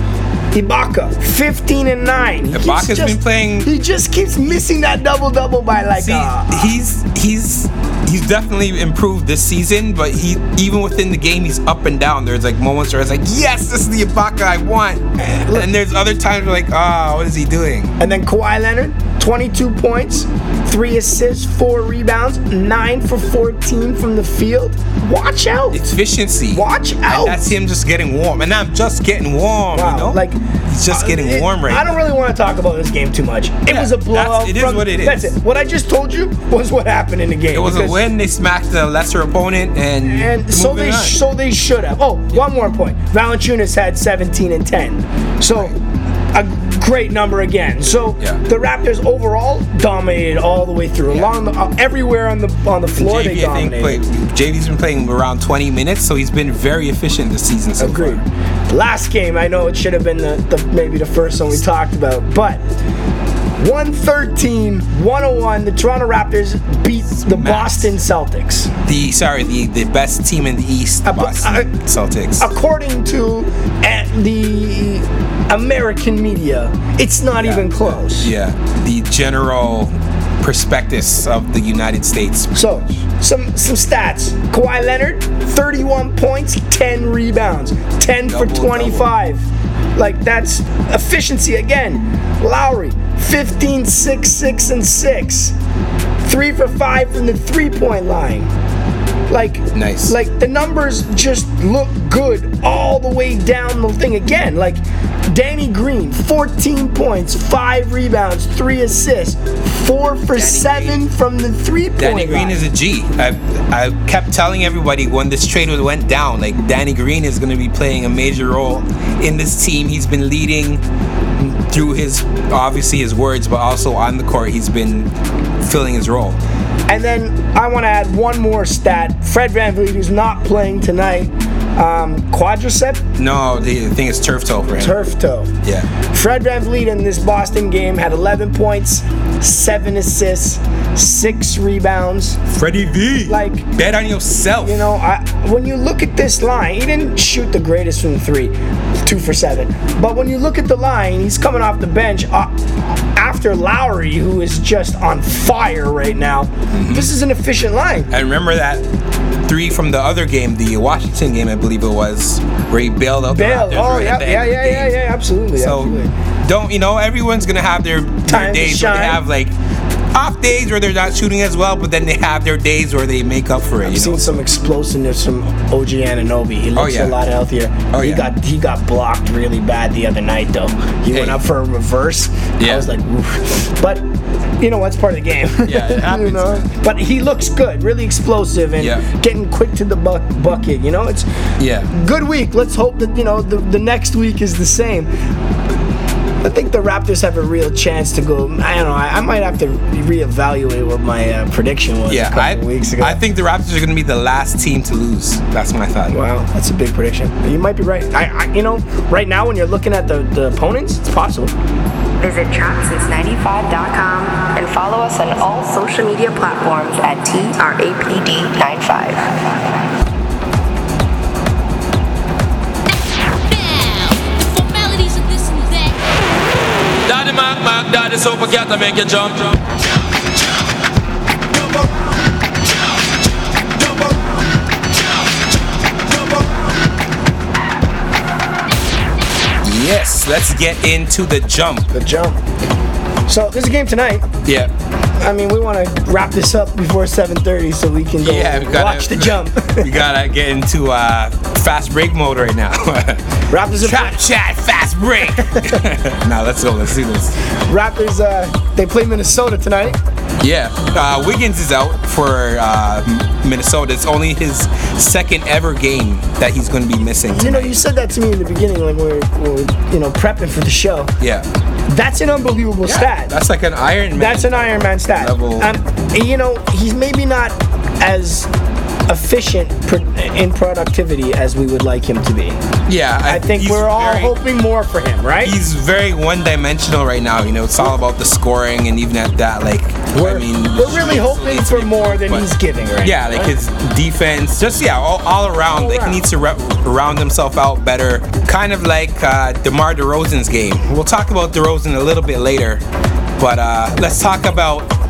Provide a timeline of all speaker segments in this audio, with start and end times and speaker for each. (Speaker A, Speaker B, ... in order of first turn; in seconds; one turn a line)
Speaker A: 0.5-6.7
Speaker B: 2.5-3.7
Speaker B: 6.0-17.9
Speaker A: 15.2-15.7
Speaker A: 18.0-25.8
Speaker B: 25.7-32.0
Speaker A: 26.5-27.5
Speaker A: 29.7-38.0
Speaker B: 33.7-35.3
Speaker B: 37.5-41.2
Speaker A: 40.0-45.8
Speaker A: 46.3-54.0
Speaker B: 53.0-58.2
Speaker A: 57.8-62.6
Speaker A: 63.6-68.7
Speaker B: 67.2-68.0
Speaker B: 68.8-72.5
Speaker A: 71.0-71.7
Speaker A: 72.4-78.3
Speaker B: 77.4-83.0
Speaker A: 82.5-89.5
Speaker B: 88.2-89.1
Speaker A: 90.0-95.5
Speaker A: 96.2-98.5
Speaker A: 99.3-112.6
Speaker B: 99.7-100.2
Speaker B: 110.3-111.0
Speaker B: 112.0-120.8
Speaker B: 121.4-126.4
Speaker A: 126.9-133.0
Speaker B: 133.2-135.0
Speaker A: 134.8-142.4
Speaker B: 135.6-135.9
Speaker B: 142.5-144.9
Speaker A: 143.3-143.7
Speaker A: 144.6-158.1
Speaker B: 156.7-157.1
Speaker B: 158.1-158.9
Speaker B: 159.4-165.0
Speaker A: 163.3-166.1
Speaker B: 165.6-169.6
Speaker A: 168.3-169.2
Speaker B: 170.1-174.4
Speaker A: 173.8-184.1
Speaker B: 176.8-177.2
Speaker B: 177.9-178.3
Speaker B: 181.1-181.4
Speaker B: 182.6-182.9
Speaker A: 184.6-191.3
Speaker B: 185.6-186.7
Speaker B: 188.8-189.1
Speaker B: 191.6-191.9
Speaker A: 191.9-195.1
Speaker A: 196.4-203.2
Speaker B: 202.1-206.2
Speaker A: 206.1-211.5
Speaker C: 212.2-219.3
Speaker D: 223.5-226.0
Speaker E: 227.1-229.5
Speaker B: 239.6-241.9
Speaker A: 241.9-242.4
Speaker A: 243.3-244.3
Speaker B: 244.4-244.7
Speaker A: 245.2-249.9
Speaker B: 248.2-257.4
Speaker A: 253.5-254.2
Speaker A: 255.4-255.8
Speaker A: 257.5-260.0
Speaker B: 260.4-267.8
Speaker A: 267.3-271.1
Speaker B: 271.2-271.5
Speaker A: 271.9-273.3
Speaker B: 272.8-275.7
Speaker A: 274.1-278.5
Speaker A: 279.1-282.6
Speaker B: 282.9-284.4
Speaker A: 283.3-285.6
Speaker B: 285.4-292.5
Speaker A: 290.1-293.5
Speaker B: 293.0-302.8
Speaker A: 295.7-296.2
Speaker B: 303.4-304.9